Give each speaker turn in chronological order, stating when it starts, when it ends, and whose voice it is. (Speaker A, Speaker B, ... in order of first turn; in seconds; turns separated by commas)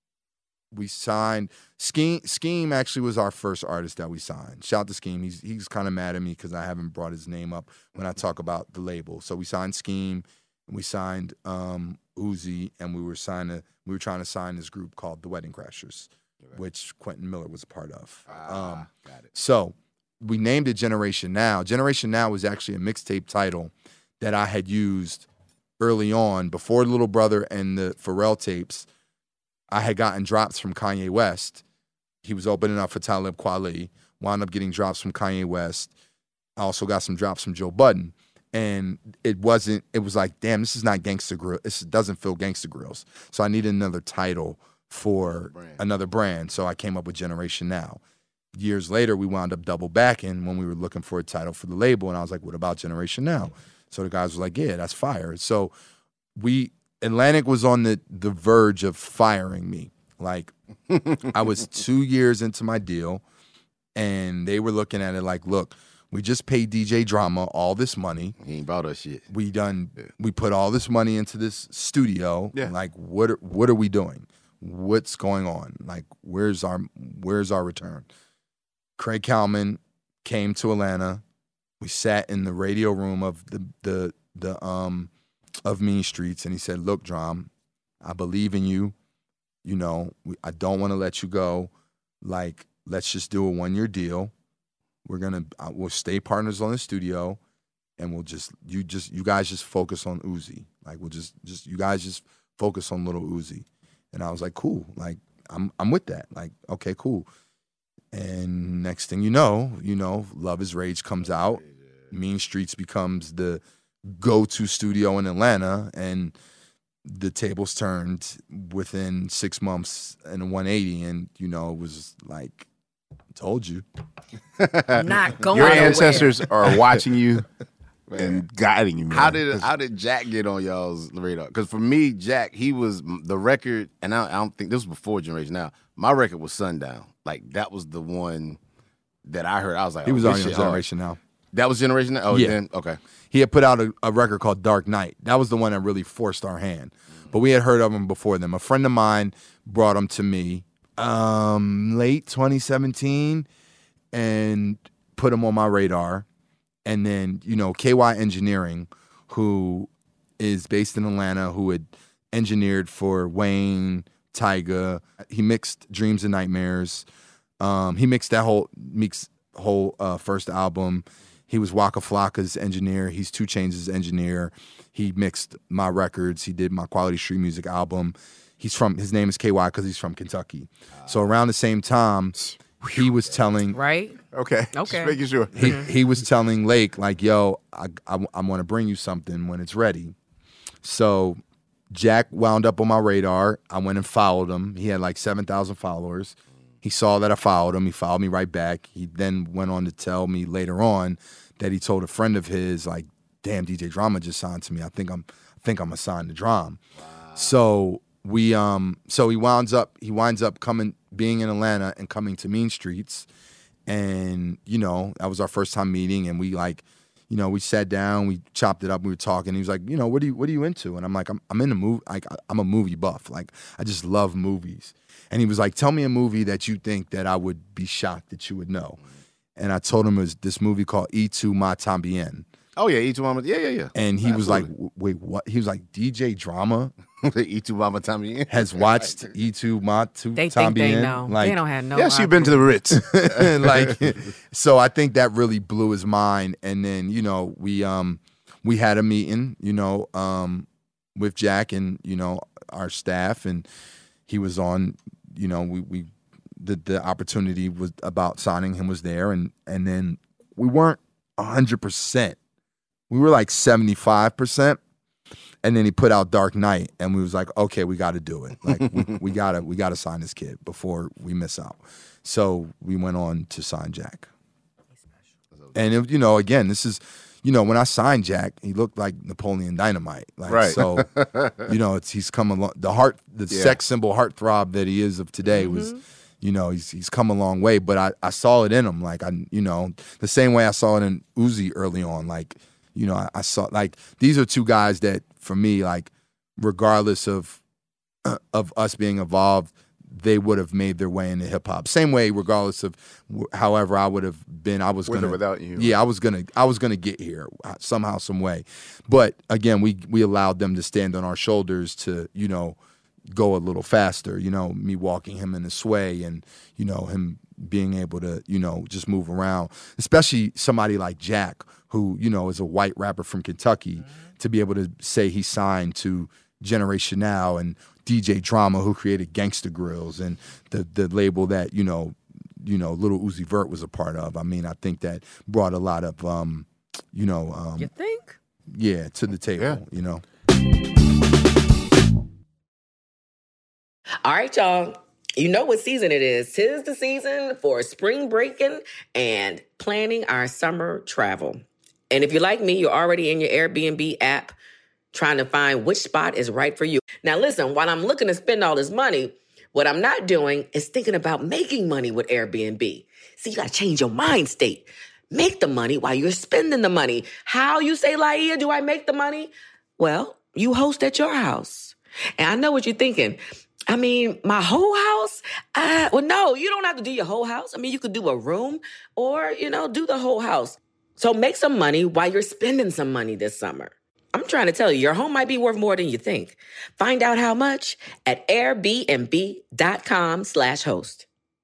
Speaker A: 0.7-25.3, Speaker B: 18.3-19.2, Speaker A: 25.8-28.9, Speaker A: 29.7-31.6, Speaker A: 32.2-35.9, Speaker A: 36.6-48.0, Speaker B: 45.4-45.8, Speaker A: 48.5-55.7, Speaker A: 56.4-60.5, Speaker A: 61.3-63.2, Speaker A: 64.0-68.4, Speaker B: 68.4-69.2, Speaker A: 69.3-78.1, Speaker A: 79.0-81.2, Speaker A: 81.8-85.1, Speaker A: 85.7-87.5, Speaker A: 88.0-88.9, Speaker A: 89.6-91.7, Speaker A: 92.2-94.3, Speaker A: 95.0-97.4, Speaker A: 98.0-107.3, Speaker A: 108.1-116.3, Speaker B: 111.6-112.1, Speaker A: 117.0-122.7, Speaker A: 123.3-123.8, Speaker B: 124.6-125.1, Speaker C: 125.0-126.3, Speaker D: 125.5-127.5, Speaker B: 128.1-128.4, Speaker D: 128.1-129.7, Speaker B: 129.1-138.6, Speaker B: 139.2-140.8, Speaker A: 140.1-141.2, Speaker B: 141.5-143.0, Speaker A: 142.3-142.6, Speaker A: 143.3-153.5, Speaker A: 154.1-156.3, Speaker A: 156.8-167.1, Speaker A: 167.6-182.4, Speaker A: 182.9-183.8, Speaker C: 183.7-184.2, Speaker D: 184.3-185.5, Speaker C: 184.7-185.9, Speaker A: 185.5-190.2, Speaker A: 190.8-206.8, Speaker B: 207.0-207.5, Speaker A: 207.3-213.3, Speaker A: 213.9-229.0, Speaker A: 229.6-232.5, Speaker B: 232.8-234.7, Speaker A: 233.9-236.9, Speaker B: 237.2-238.6, Speaker A: 238.5-241.6, Speaker C: 240.4-242.6, Speaker D: 241.9-243.1, Speaker A: 242.9-253.7, Speaker A: 254.3-262.4, Speaker A: 263.1-264.8, Speaker A: 265.6-274.3, Speaker A: 275.7-281.1, Speaker D: 280.5-280.8, Speaker B: 280.9-281.7, Speaker A: 281.6-297.6, Speaker D: 283.5-283.8, Speaker C: 285.6-286.0, Speaker A: 298.2-312.8, Speaker D: 305.1-306.0, Speaker A: 313.3-337.9, Speaker C: 337.8-338.4, Speaker A: 338.7-340.2, Speaker E: 344.2-354.6, Speaker E: 355.1-391.3